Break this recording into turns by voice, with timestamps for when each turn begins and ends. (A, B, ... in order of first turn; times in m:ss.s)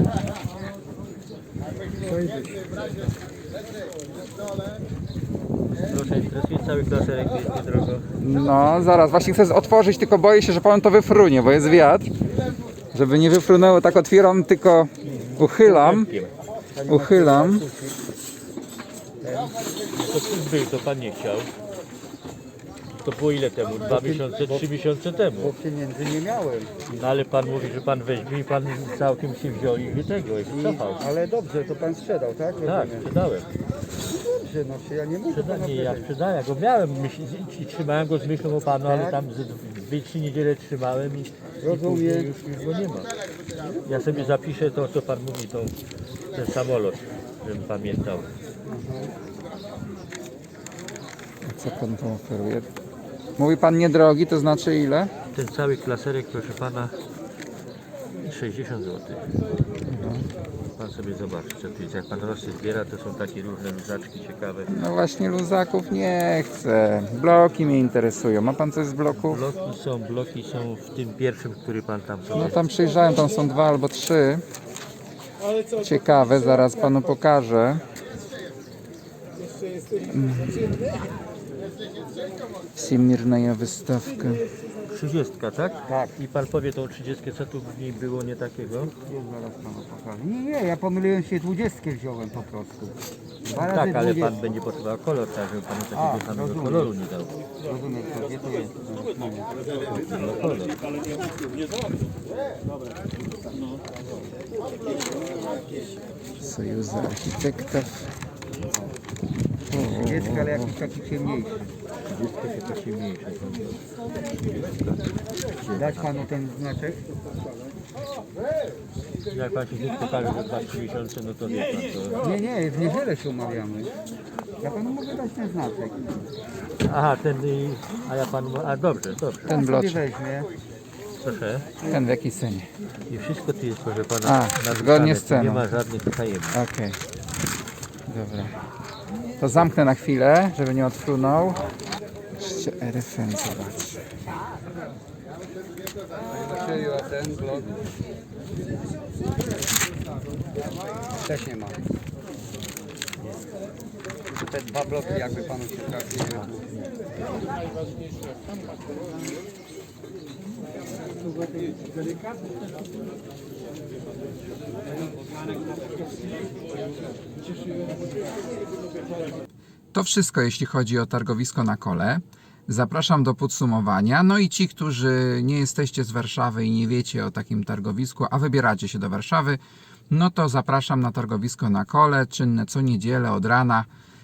0:02.1-0:02.6 A
0:05.9-0:08.0 B
0:08.2-0:12.1 C
0:12.9-0:16.1 C
0:15.0-0:16.3 B
0:16.8-0:18.0 A
0:16.9-0:17.6 C
0:19.2-0:19.7 A
0:19.9-0:21.5 B
0:23.0-0:25.5 B
0:23.9-0:24.6 A
0:25.4-0:26.7 A
0:26.9-0:31.0 B
0:30.5-0:33.1 A
0:32.6-0:33.5 B
0:34.2-0:36.1 A
0:35.3-0:43.1 B
0:38.8-0:39.2 A
0:41.6-0:42.3 A
0:43.9-0:45.8 B
0:46.3-0:48.3 B
0:48.7-0:49.1 A
0:51.4-0:52.7 C
0:53.4-0:55.1 C
0:55.3-0:57.0 B
0:58.2-0:59.2 B
0:59.9-1:00.3 C
1:00.8-1:04.7 B
1:04.7-1:09.4 C
1:09.1-1:12.6 B
1:12.4-1:14.4 C
1:15.8-1:17.8 C
1:20.0-1:20.8 C
1:22.8-1:24.4 C
1:24.9-1:28.9 B
1:25.9-1:26.2 A
1:29.0-1:34.3 A
1:33.5-1:37.4 B
1:35.9-1:36.9 A
1:37.6-1:39.5 A
1:39.9-1:40.8 B
1:46.4-1:48.1 C
1:49.7-1:50.8 C
1:49.8-1:51.6 A
1:52.1-1:55.0 B
1:55.6-1:56.3 B
1:55.7-1:57.0 A
1:59.3-2:02.2 B
2:02.2-2:03.9 A
2:04.6-2:06.2 A
2:06.8-2:09.5 B
2:09.4-2:10.0 C
2:09.5-2:10.5 A
2:11.2-2:11.7 B
2:11.8-2:12.7 C
2:13.1-2:16.6 B
2:14.2-2:15.7 C
2:16.5-2:17.0 C
2:18.1-2:18.6 C
2:19.4-2:21.6 C
2:22.4-2:24.0 C
2:26.3-2:27.8 A
2:31.2-2:31.8 A
2:34.4-2:36.6 A
2:49.9-3:03.9 C